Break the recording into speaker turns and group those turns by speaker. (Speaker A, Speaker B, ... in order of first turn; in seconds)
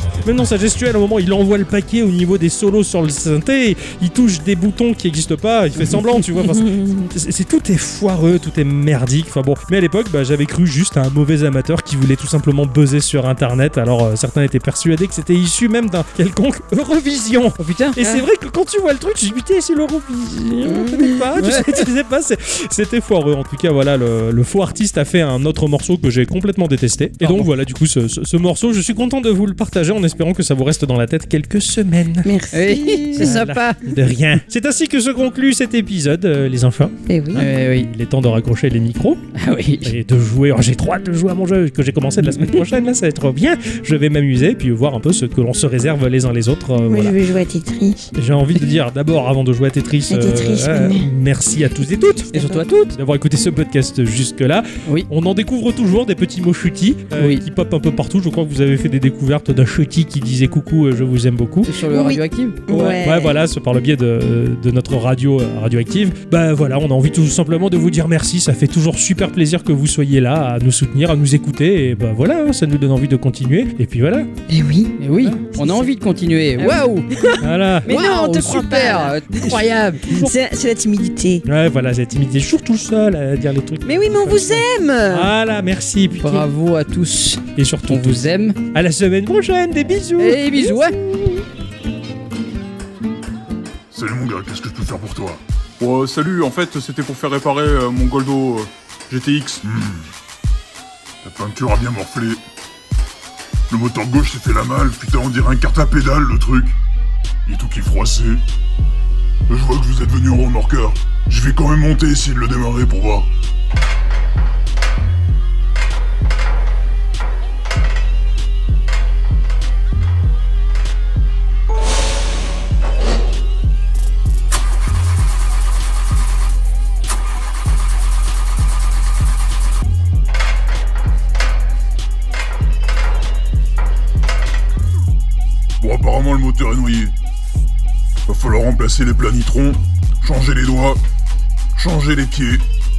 Speaker A: 0.2-32.3, 33.2-39.2, 39.8-47.2, 48.1-61.7, 62.7-74.3, 77.4-77.9, 79.5-80.3, 81.5-86.5, 87.6-91.0
Speaker B: 17.6-18.0, 21.4-21.8, 27.2-27.5, 32.5-33.9, 37.3-37.9, 39.4-39.9, 52.3-53.0, 57.2-57.4, 61.6-62.7, 75.0-77.3, 77.8-80.2, 86.2-88.6, 90.2-91.0
Speaker C: 20.6-21.2, 32.2-33.4, 37.1-37.5, 46.9-48.1, 50.1-51.1, 61.9-63.4, 74.5-75.0, 75.5-75.8, 76.6-79.2, 80.1-81.4, 83.8-85.3
Speaker D: 93.9-95.4, 99.6-100.1, 101.2-102.4, 103.7-106.8, 107.5-108.4, 109.5-113.3, 135.8-137.1, 138.3-141.0, 141.8-142.6
Speaker E: 95.8-99.6